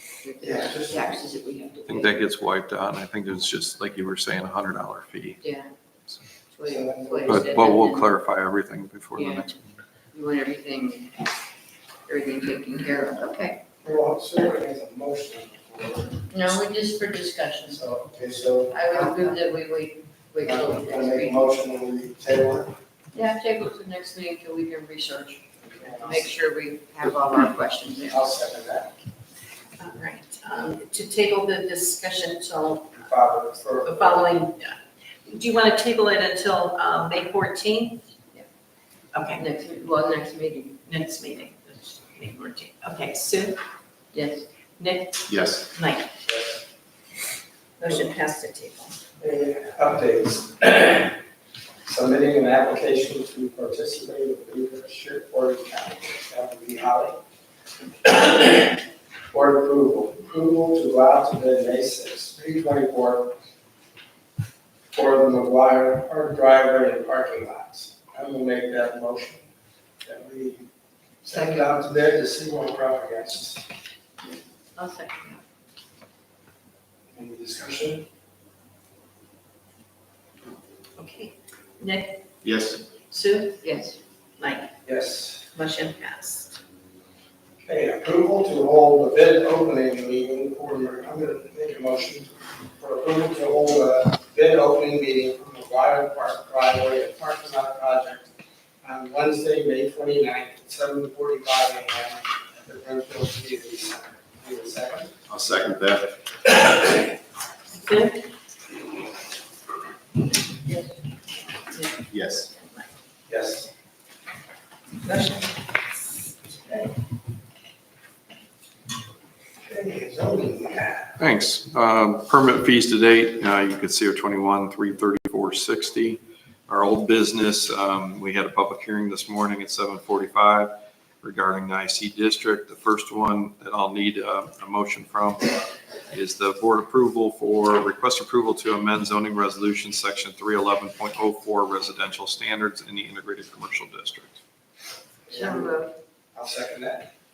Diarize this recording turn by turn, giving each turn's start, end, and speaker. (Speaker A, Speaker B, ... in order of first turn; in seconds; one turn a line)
Speaker A: 0.2-2.2
Speaker B: 0.4-1.2
Speaker C: 1.9-5.4
Speaker A: 5.4-5.7
Speaker A: 6.5-8.1
Speaker B: 6.6-7.5
Speaker C: 7.3-9.7
Speaker A: 9.1-9.6
Speaker A: 10.1-11.2
Speaker A: 12.1-13.6
Speaker B: 13.8-16.3
Speaker A: 16.3-18.1
Speaker B: 18.1-19.4
Speaker A: 18.7-21.5
Speaker B: 20.4-22.7
Speaker A: 23.1-28.3
Speaker B: 25.7-26.3
Speaker B: 28.1-28.9
Speaker D: 29.8-33.1
Speaker B: 33.0-34.3
Speaker D: 33.8-38.1
Speaker D: 39.1-39.4
Speaker A: 39.3-40.9
Speaker D: 40.9-43.6
Speaker A: 44.1-44.5
Speaker D: 44.8-46.1
Speaker E: 45.3-45.7
Speaker B: 46.2-46.6
Speaker D: 47.8-49.0
Speaker B: 49.2-51.1
Speaker B: 51.8-57.2
Speaker B: 58.0-58.8
Speaker B: 59.3-63.3
Speaker B: 64.9-69.4
Speaker B: 70.0-70.7
Speaker B: 71.2-73.7
Speaker A: 74.2-75.4
Speaker B: 77.1-78.1
Speaker D: 81.0-82.2
Speaker E: 82.4-82.8
Speaker D: 83.0-83.6
Speaker A: 83.6-84.0
Speaker D: 84.4-84.7
Speaker B: 84.8-85.5
Speaker D: 85.5-86.6
Speaker B: 87.6-98.3
Speaker B: 98.8-105.1
Speaker E: 105.3-106.5
Speaker D: 107.7-108.2
Speaker D: 111.7-112.9
Speaker E: 112.1-112.5
Speaker B: 113.3-113.7
Speaker D: 115.0-115.5
Speaker B: 119.6-121.1
Speaker C: 121.2-135.5
Speaker C: 136.1-144.3
Speaker B: 145.3-147.1
Speaker A: 145.3-145.9